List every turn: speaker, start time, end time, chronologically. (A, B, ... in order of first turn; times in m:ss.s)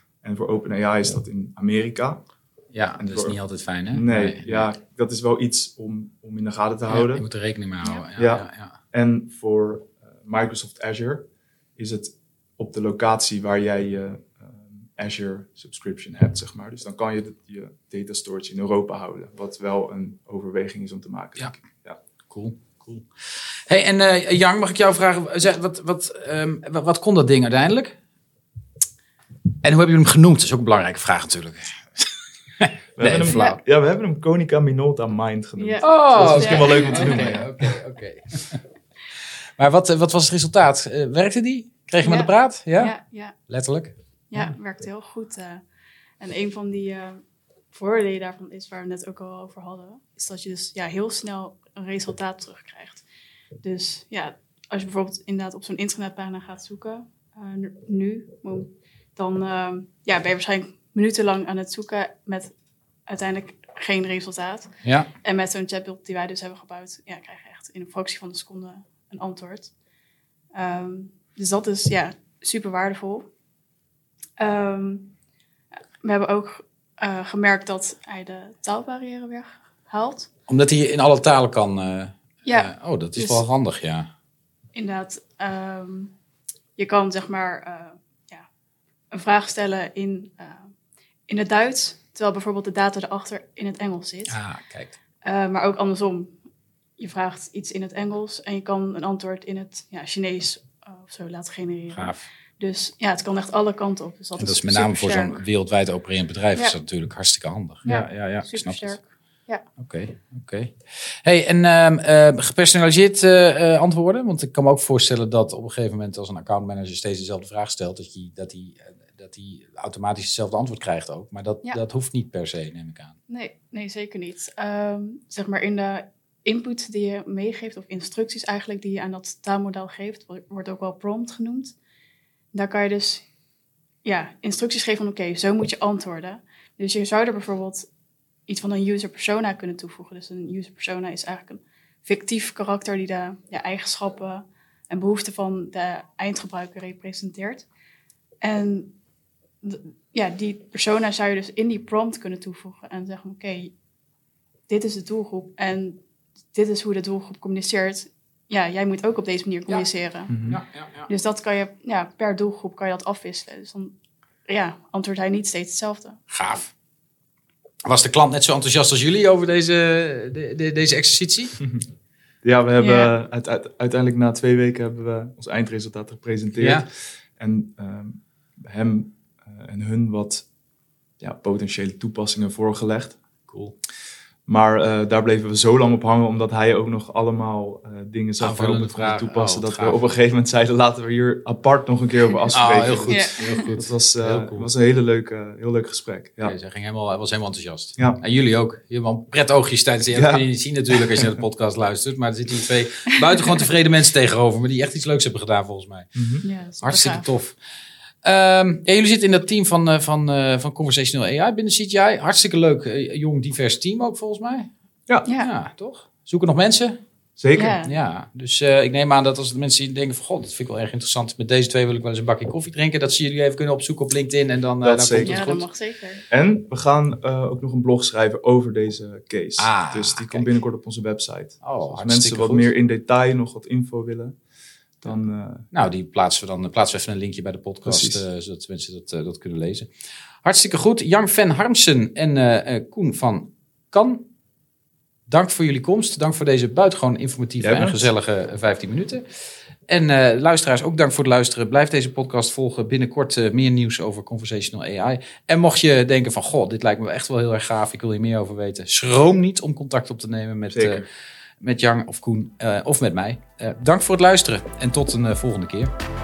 0:00.2-0:02.3 A
0:02.7-0:04.7 B
0:03.0-0:07.3 A
0:06.9-0:08.8 B
0:08.2-0:22.0 A
0:22.3-0:28.0 B
0:29.6-0:33.6 B
0:33.0-0:37.5 A
0:33.3-0:33.6 C
0:35.6-0:37.4 C
0:35.8-0:38.6 B
0:39.6-0:43.0 B
0:42.0-0:43.4 C
0:43.5-0:43.9 B
0:44.3-0:45.6 C
0:46.2-0:53.0 C
0:53.6-1:02.5 C
1:03.1-1:09.7 C
1:04.8-1:05.1 B
1:10.5-1:13.3 C
1:14.4-1:15.1 C
1:16.0-1:20.3 C
1:20.5-1:24.1 B
1:22.4-1:23.4 C
1:24.7-1:26.1 C
1:26.8-1:28.5 C
1:29.1-1:30.7 C
1:31.3-1:34.4 C
1:34.3-1:35.0 B
1:35.2-1:36.4 C
1:37.0-1:45.4 C
1:41.9-1:42.2 B
1:44.4-1:49.0 B
1:47.8-1:49.7 C
1:49.8-2:03.2 B
2:03.3-2:11.8 C
2:12.5-2:13.2 C
2:14.0-2:17.9 C
2:18.5-2:27.7 C
2:28.4-2:29.0 C
2:29.6-2:33.7 C
2:34.7-2:36.0 C
2:36.5-2:40.4 C
2:40.3-2:40.6 A
2:40.5-2:41.1 B
2:41.1-2:46.2 C
2:46.3-2:46.7 B
2:47.8-2:51.6 B
2:52.4-3:00.5 A
2:52.8-2:53.1 C
2:56.6-2:56.8 B
3:01.2-3:03.2 A
3:03.5-3:03.7 B
3:04.5-3:16.6 A
3:08.4-3:10.0 B
3:12.5-3:14.7 B
3:13.1-3:13.7 C
3:16.4-3:26.2 B
3:20.1-3:20.5 A
3:26.2-3:26.4 A
3:26.4-3:27.3 C
3:26.8-3:27.6 B
3:28.2-3:34.7 B
3:35.2-3:37.0 B
3:37.4-3:37.8 A
3:37.6-3:37.9 C
3:37.8-3:45.7 B
3:44.8-3:45.4 A
3:45.2-3:46.2 C
3:46.3-3:54.4 A
3:49.6-3:50.5 B
3:51.6-3:52.7 B
3:55.0-3:55.7 A
3:55.7-3:59.9 B
3:57.8-3:58.2 A
4:00.4-4:04.3 B
4:05.3-4:09.2 B
4:07.6-4:08.1 A
4:09.9-4:21.0 B
4:20.7-4:21.1 A
4:21.6-4:25.9 B